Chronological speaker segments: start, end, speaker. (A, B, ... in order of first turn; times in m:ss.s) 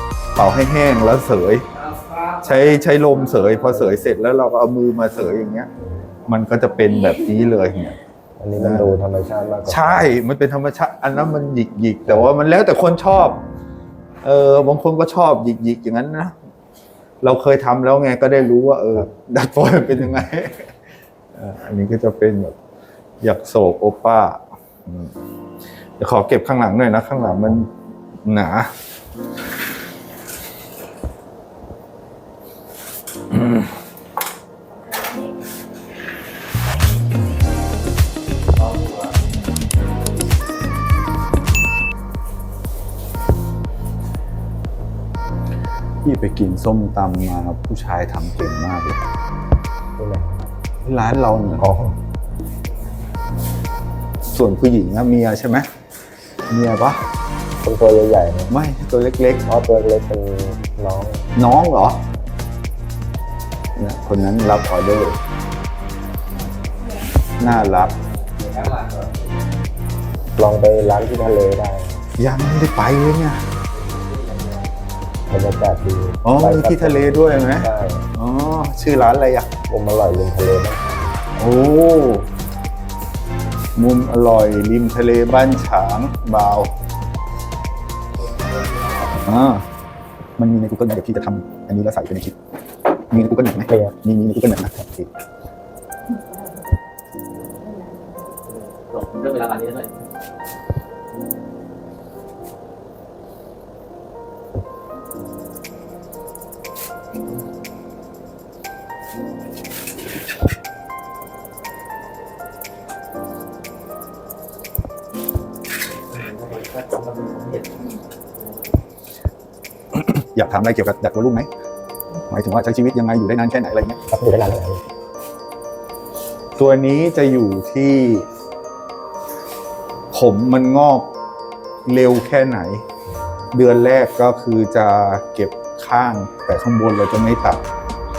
0:00.4-0:01.7 A
0:01.7-0:03.7 B
0:02.4-0:05.7 A
0:06.3-0:08.0 A
0:08.4-0:10.1 C
0:08.6-0:09.0 A
0:09.6-0:13.4 A
0:14.2-0:16.4 A
0:17.2-0:20.7 A
0:21.4-0:22.6 A
0:23.2-0:25.1 A
0:26.0-0:27.7 A
0:27.2-0:27.6 C
0:28.3-0:28.7 A
0:38.6-0:39.1 B
0:46.0-0:49.0 A
0:50.0-0:50.5 C
0:50.8-0:51.6 A
0:51.6-0:52.0 C
0:54.3-0:55.7 A
0:56.5-0:57.0 A
0:57.6-0:58.5 C
0:58.5-0:59.4 A
0:59.5-1:01.3 C
1:01.4-1:02.0 A
1:03.8-1:05.2 A
1:07.4-1:07.9 A
1:07.4-1:09.4 B
1:10.4-1:12.0 C
1:12.2-1:13.5 A
1:13.7-1:14.7 B
1:15.3-1:18.1 C
1:16.2-1:19.5 A
1:19.7-1:21.2 C
1:21.4-1:22.3 A
1:23.8-1:26.7 A
1:28.2-1:29.2 B
1:29.2-1:29.6 A
1:30.4-1:32.4 A
1:33.1-1:35.1 A
1:33.7-1:34.0 C
1:38.5-1:39.9 B
1:56.1-1:58.7 B
1:59.9-2:01.5 A
2:02.3-2:04.0 A
2:04.1-2:04.8 C
2:06.6-2:08.3 A
2:10.1-2:11.1 A
2:11.9-2:12.8 A
2:13.5-2:17.6 A